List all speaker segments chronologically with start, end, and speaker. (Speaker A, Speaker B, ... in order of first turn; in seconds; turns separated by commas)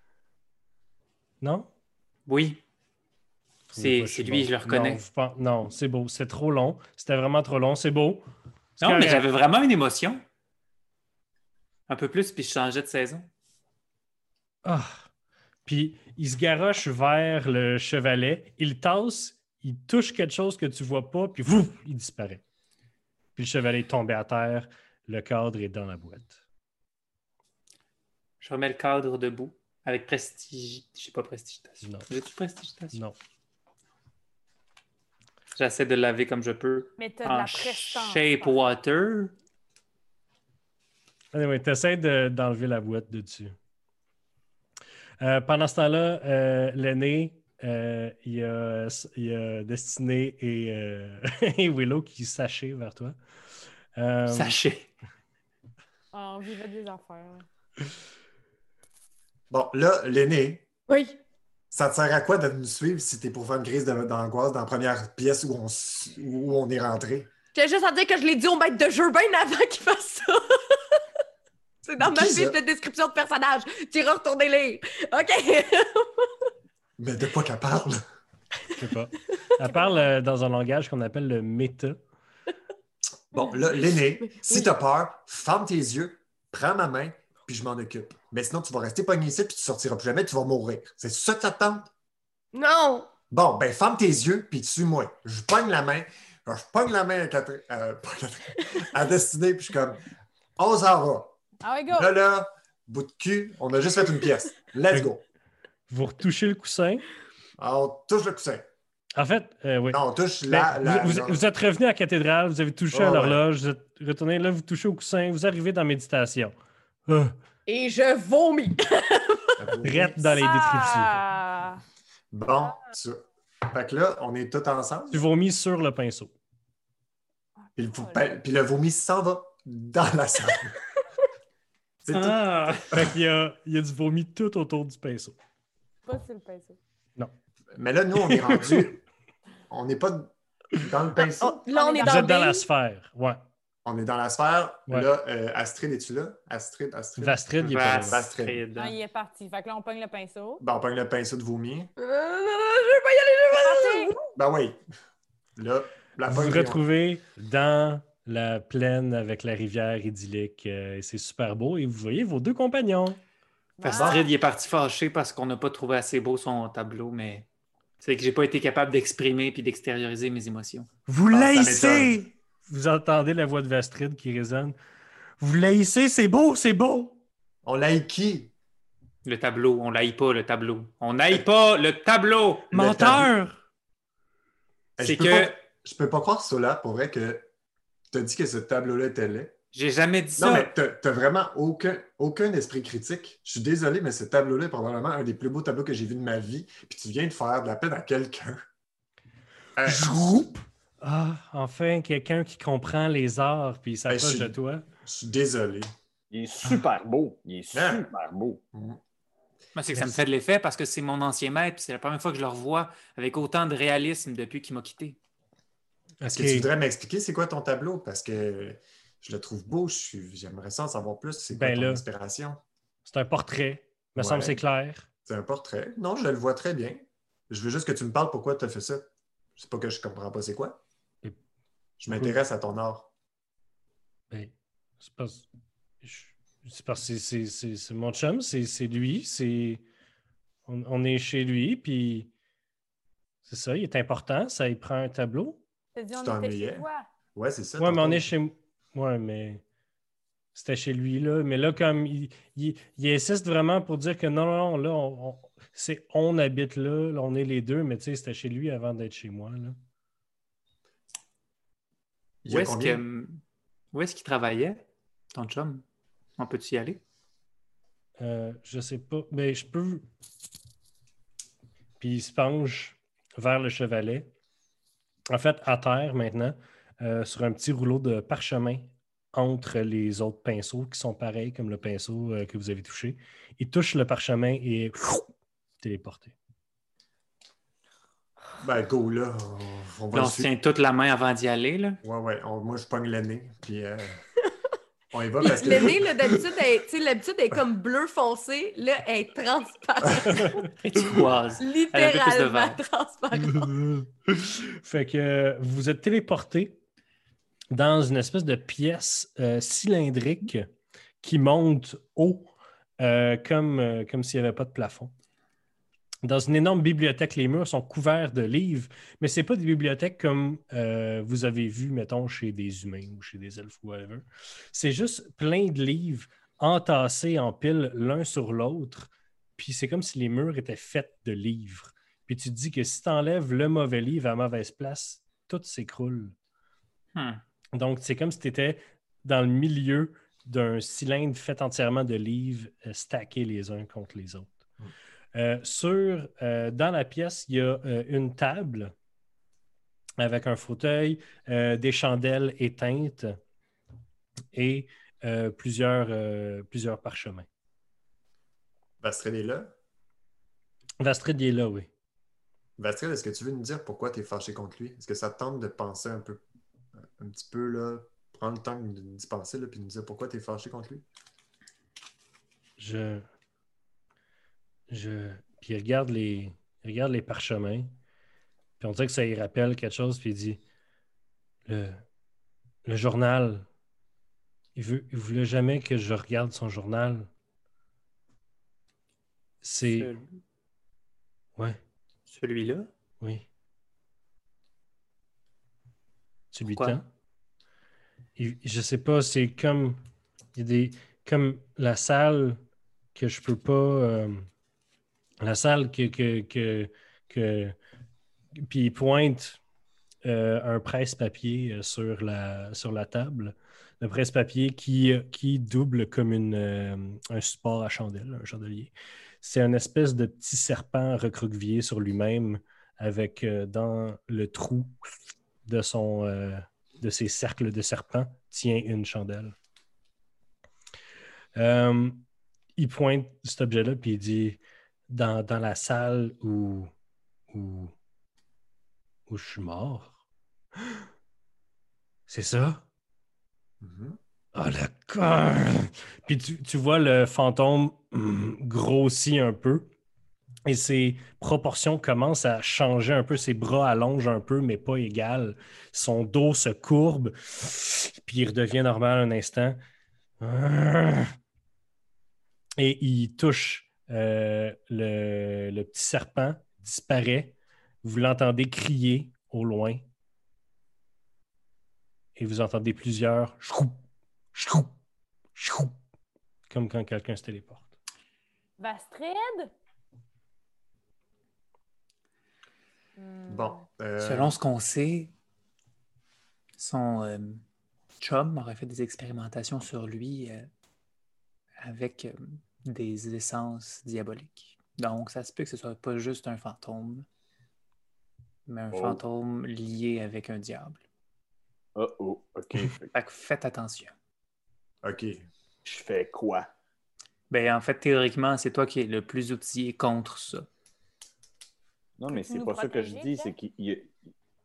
Speaker A: 1.4-1.7, Speaker B: 2.3-2.6, Speaker A: 3.7-8.2, Speaker B: 3.8-5.0, Speaker A: 8.8-9.2, Speaker B: 8.8-10.2, Speaker B: 11.9-13.3, Speaker A: 14.6-15.0, Speaker A: 15.7-22.4, Speaker A: 23.4-26.4, Speaker B: 28.4-33.0, Speaker A: 31.8-32.1, Speaker B: 35.5-39.3, Speaker C: 37.0-38.6, Speaker A: 41.3-43.5, Speaker A: 45.2-53.2, Speaker A: 54.0-54.6, Speaker B: 54.3-54.9, Speaker C: 56.1-57.5, Speaker D: 59.5-60.6, Speaker E: 60.9-61.2, Speaker D: 61.7-67.3, Speaker E: 67.5-71.0, Speaker E: 71.8-76.3, Speaker D: 72.0-72.6, Speaker D: 77.0-78.0, Speaker A: 78.8-82.0, Speaker C: 79.7-80.1, Speaker D: 83.3-91.9, Speaker E: 84.2-84.7, Speaker E: 92.5-93.1, Speaker D: 93.3-100.0, Speaker D: 100.6-101.4, Speaker C: 101.6-102.1, Speaker D: 101.9-105.2, Speaker A: 105.9-107.0, Speaker D: 107.6-108.7, Speaker A: 109.1-116.5, Speaker D: 109.9-111.4, Speaker D: 112.9-113.4, Speaker A: 117.1-117.4, Speaker E: 117.7-119.5, Speaker D: 119.6-120.4, Speaker A: 119.8-121.2, Speaker C: 120.4-121.8, Speaker D: 122.3-125.2, Speaker A: 125.1-126.3, Speaker D: 127.8-130.8, Speaker C: 127.8-128.2, Speaker D: 132.0-133.2, Speaker B: 132.1-132.8, Speaker A: 132.9-135.4, Speaker C: 136.1-136.8, Speaker D: 137.7-139.0, Speaker A: 138.2-138.9, Speaker D: 139.7-141.6, Speaker E: 141.4-142.6, Speaker C: 141.7-142.3, Speaker A: 142.0-143.4, Speaker D: 143.8-147.4, Speaker A: 147.2-148.3, Speaker B: 147.6-148.9, Speaker D: 148.0-148.6, Speaker C: 148.8-150.6, Speaker D: 150.6-151.9, Speaker E: 152.0-154.1, Speaker C: 153.5-154.3, Speaker D: 154.3-154.8, Speaker D: 155.6-156.8, Speaker A: 156.3-163.2, Speaker C: 163.8-164.3, Speaker B: 163.8-167.5, Speaker D: 163.9-164.3, Speaker B: 168.0-170.9, Speaker A: 171.1-174.8, Speaker D: 171.3-172.2, Speaker A: 175.4-177.2, Speaker D: 177.6-178.5, Speaker B: 179.2-182.7, Speaker D: 182.7-183.3, Speaker A: 182.7-183.6, Speaker D: 185.0-187.5, Speaker B: 185.0-185.5, Speaker D: 188.1-189.5, Speaker B: 189.7-190.7, Speaker D: 190.4-198.6, Speaker D: 199.8-200.3, Speaker A: 199.9-204.8, Speaker D: 204.1-205.9, Speaker F: 206.3-208.6, Speaker D: 207.7-208.1, Speaker D: 208.7-209.0, Speaker B: 209.8-215.2, Speaker A: 209.9-210.2, Speaker A: 216.2-216.7, Speaker D: 216.3-222.6, Speaker A: 221.5-222.0, Speaker A: 223.1-225.1, Speaker D: 224.2-224.6, Speaker D: 225.3-229.1, Speaker D: 229.6-230.8, Speaker D: 232.0-233.1, Speaker A: 232.1-232.4, Speaker A: 234.3-235.5, Speaker A: 236.0-239.8, Speaker A: 240.7-242.3, Speaker A: 243.5-245.6, Speaker C: 245.9-247.1, Speaker D: 246.1-248.3, Speaker A: 247.8-249.6, Speaker A: 250.5-259.8, Speaker D: 262.4-263.0, Speaker B: 262.5-263.4, Speaker B: 263.9-264.8, Speaker B: 265.3-265.8, Speaker B: 266.4-267.0, Speaker A: 268.2-270.0, Speaker A: 272.0-274.3, Speaker A: 275.3-285.3, Speaker A: 285.8-286.4, Speaker D: 288.6-290.5, Speaker B: 290.1-292.0, Speaker D: 292.0-294.2, Speaker D: 295.1-296.4, Speaker E: 295.4-300.6, Speaker B: 300.6-302.8, Speaker E: 301.6-303.7, Speaker A: 303.4-306.8, Speaker A: 307.7-310.7, Speaker A: 311.2-315.1, Speaker A: 316.2-336.4, Speaker B: 337.1-337.4, Speaker A: 337.8-344.6, Speaker A: 345.3-348.9, Speaker A: 350.2-353.4, Speaker A: 354.5-357.5, Speaker D: 359.0-359.7, Speaker A: 361.0-361.9, Speaker D: 362.8-366.4, Speaker D: 367.0-371.0, Speaker A: 372.8-373.3, Speaker A: 374.9-377.9, Speaker A: 378.8-380.6, Speaker A: 381.7-382.0, Speaker A: 382.9-383.7, Speaker A: 384.8-387.3, Speaker A: 389.6-390.1, Speaker B: 389.9-390.4, Speaker B: 392.3-392.9, Speaker A: 396.5-397.1, Speaker B: 396.7-397.0, Speaker A: 398.4-400.0, Speaker A: 400.6-402.6, Speaker A: 403.1-404.5, Speaker A: 405.4-407.8, Speaker A: 408.6-409.6, Speaker A: 410.2-418.9, Speaker A: 419.4-425.0, Speaker A: 425.6-429.6, Speaker A: 431.6-432.2, Speaker A: 432.8-436.9, Speaker A: 437.5-437.9, Speaker A: 439.3-440.2, Speaker A: 442.3-442.8, Speaker D: 443.8-444.2, Speaker A: 444.6-449.9, Speaker A: 450.6-459.8, Speaker A: 460.4-461.3, Speaker A: 462.8-470.0, Speaker A: 472.4-474.0, Speaker A: 474.5-474.9, Speaker A: 475.6-475.9, Speaker A: 476.7-477.9, Speaker C: 478.8-479.7, Speaker C: 483.2-483.8, Speaker D: 483.5-484.6, Speaker B: 484.2-485.3, Speaker B: 486.8-487.6, Speaker B: 488.2-490.7, Speaker B: 491.8-497.3, Speaker B: 498.7-501.0, Speaker F: 498.9-499.2, Speaker F: 502.0-503.1, Speaker B: 503.1-504.1, Speaker D: 505.0-505.4, Speaker F: 505.9-506.7, Speaker B: 507.5-510.7, Speaker F: 512.2-514.1, Speaker C: 512.3-513.5